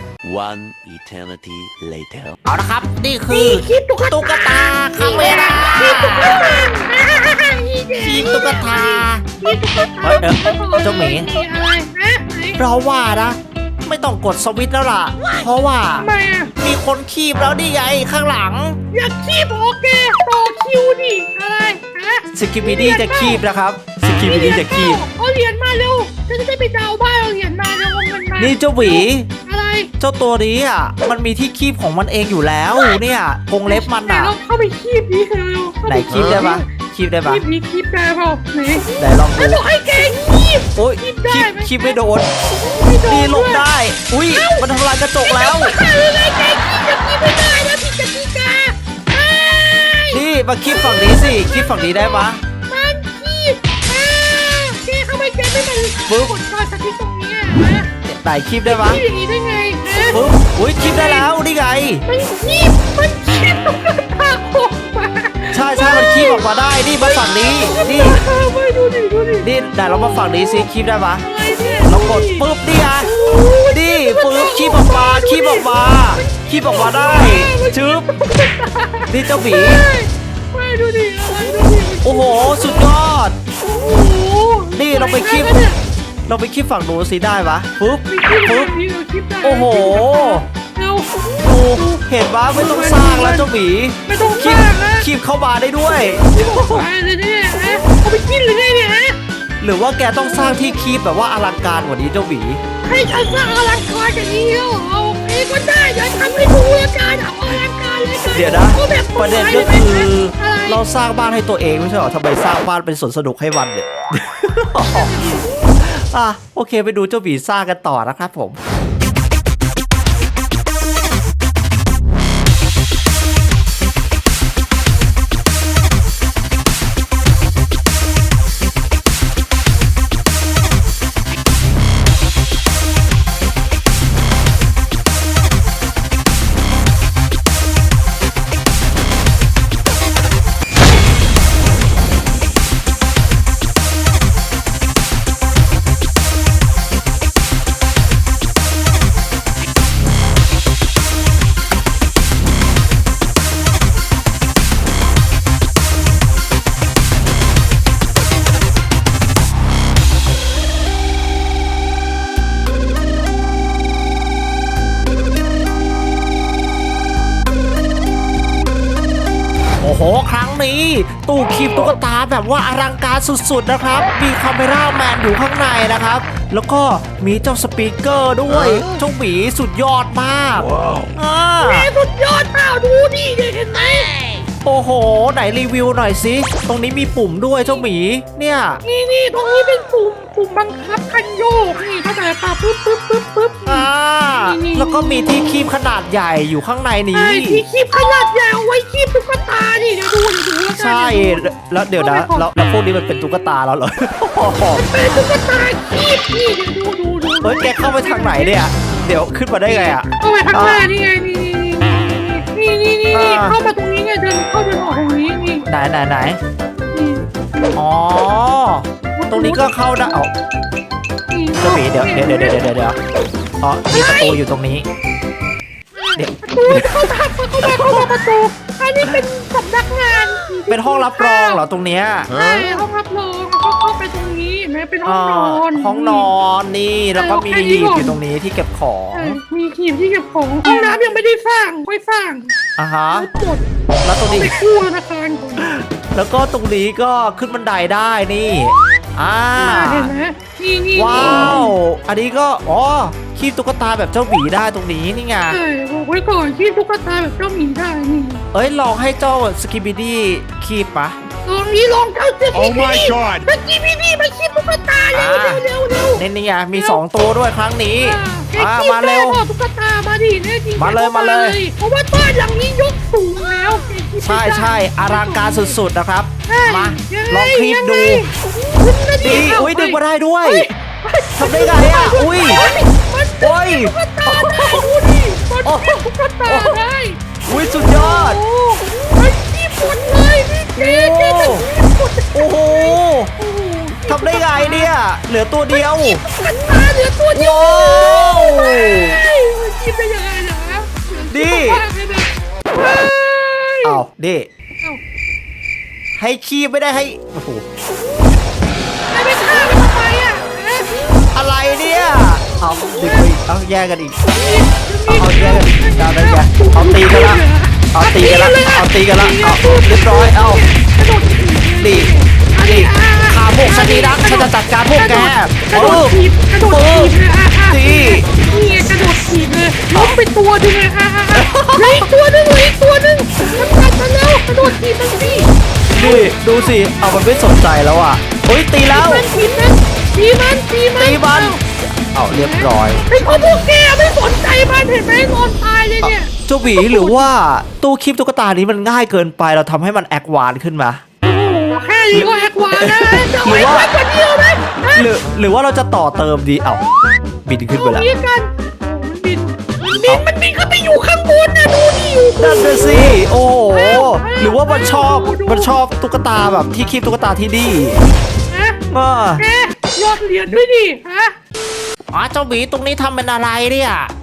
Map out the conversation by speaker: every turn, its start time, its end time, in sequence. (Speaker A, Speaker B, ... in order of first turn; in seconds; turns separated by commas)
Speaker A: 0.2-2.3, Speaker B: 2.4-6.6, Speaker C: 3.3-12.6, Speaker B: 8.0-9.2, Speaker B: 10.0-11.3, Speaker B: 12.6-18.8, Speaker C: 16.0-16.5, Speaker C: 18.9-23.4, Speaker B: 22.3-25.0, Speaker C: 24.2-29.9, Speaker B: 28.4-29.3, Speaker B: 30.0-34.3, Speaker C: 32.7-33.0, Speaker C: 33.6-36.7, Speaker B: 35.9-37.4, Speaker C: 37.2-43.7, Speaker B: 39.0-39.6, Speaker B: 40.8-42.3, Speaker B: 43.0-45.7, Speaker C: 44.3-44.7, Speaker C: 45.2-57.9, Speaker B: 50.1-52.4, Speaker B: 56.1-56.3, Speaker B: 58.1-59.0, Speaker C: 58.6-61.4, Speaker B: 60.1-62.0, Speaker C: 62.0-70.7, Speaker B: 65.5-68.2, Speaker B: 69.4-71.3, Speaker C: 71.2-72.5, Speaker B: 71.8-73.1, Speaker C: 73.0-82.9, Speaker B: 73.7-78.1, Speaker B: 79.0-79.8, Speaker B: 82.0-83.4, Speaker C: 83.6-85.8, Speaker B: 84.7-85.6, Speaker B: 86.3-88.7, Speaker C: 88.1-93.5, Speaker B: 89.4-90.5, Speaker B: 91.4-96.9, Speaker C: 94.0-95.1, Speaker C: 95.8-99.2, Speaker B: 99.6-102.6, Speaker C: 100.2-100.8, Speaker C: 102.8-110.8, Speaker B: 108.3-118.6, Speaker C: 114.9-115.5, Speaker B: 169.8-181.9, Speaker C: 181.6-184.1, Speaker B: 184.6-188.8, Speaker C: 188.8-195.7, Speaker B: 193.6-197.6, Speaker C: 197.1-202.5, Speaker B: 200.7-204.8, Speaker C: 204.7-208.7, Speaker B: 207.4-210.9, Speaker C: 209.7-215.7, Speaker B: 213.1-213.6, Speaker B: 215.7-216.4, Speaker C: 216.9-217.6, Speaker B: 217.8-220.3, Speaker C: 219.2-219.7, Speaker C: 221.3-222.6, Speaker B: 221.6-223.0, Speaker B: 223.6-224.8, Speaker C: 223.9-224.4, Speaker C: 225.9-231.6, Speaker B: 226.2-228.1, Speaker B: 230.7-232.3, Speaker C: 232.3-236.3, Speaker B: 235.1-239.4, Speaker C: 237.2-238.2, Speaker C: 239.1-242.5, Speaker B: 242.8-243.3, Speaker C: 243.1-243.7, Speaker B: 244.0-244.5, Speaker C: 244.2-245.7, Speaker B: 245.6-250.1, Speaker C: 249.6-251.8, Speaker B: 250.9-255.6, Speaker C: 255.5-258.4, Speaker B: 258.5-261.2, Speaker C: 261.4-267.0, Speaker B: 265.1-265.6, Speaker B: 266.1-269.4, Speaker C: 268.0-275.8, Speaker B: 270.8-271.6, Speaker B: 274.2-278.2, Speaker C: 276.5-294.9, Speaker B: 279.2-280.7, Speaker B: 281.4-282.6, Speaker B: 283.4-283.9, Speaker B: 285.6-286.8, Speaker B: 287.4-288.4, Speaker B: 290.8-291.7, Speaker B: 292.3-293.3, Speaker B: 294.1-296.2, Speaker C: 295.7-304.0, Speaker B: 297.3-299.2, Speaker B: 301.3-301.8, Speaker B: 303.8-304.5, Speaker B: 306.1-307.6, Speaker C: 309.1-311.0, Speaker B: 311.3-314.2, Speaker C: 312.6-313.3, Speaker C: 314.2-336.7, Speaker B: 315.1-317.4, Speaker B: 317.9-320.6, Speaker B: 321.8-322.1, Speaker B: 322.6-328.3, Speaker B: 329.9-330.2, Speaker B: 331.3-332.1, Speaker B: 335.9-339.3, Speaker C: 338.9-341.6, Speaker B: 341.0-341.6, Speaker B: 342.1-343.0, Speaker C: 342.3-347.3, Speaker B: 346.0-351.0, Speaker C: 351.2-355.1, Speaker B: 352.1-353.9, Speaker B: 354.9-356.8, Speaker B: 357.4-358.1, Speaker C: 357.7-365.7, Speaker B: 362.4-368.0, Speaker C: 368.5-368.8, Speaker B: 368.9-369.4, Speaker C: 369.4-371.3, Speaker B: 372.1-374.1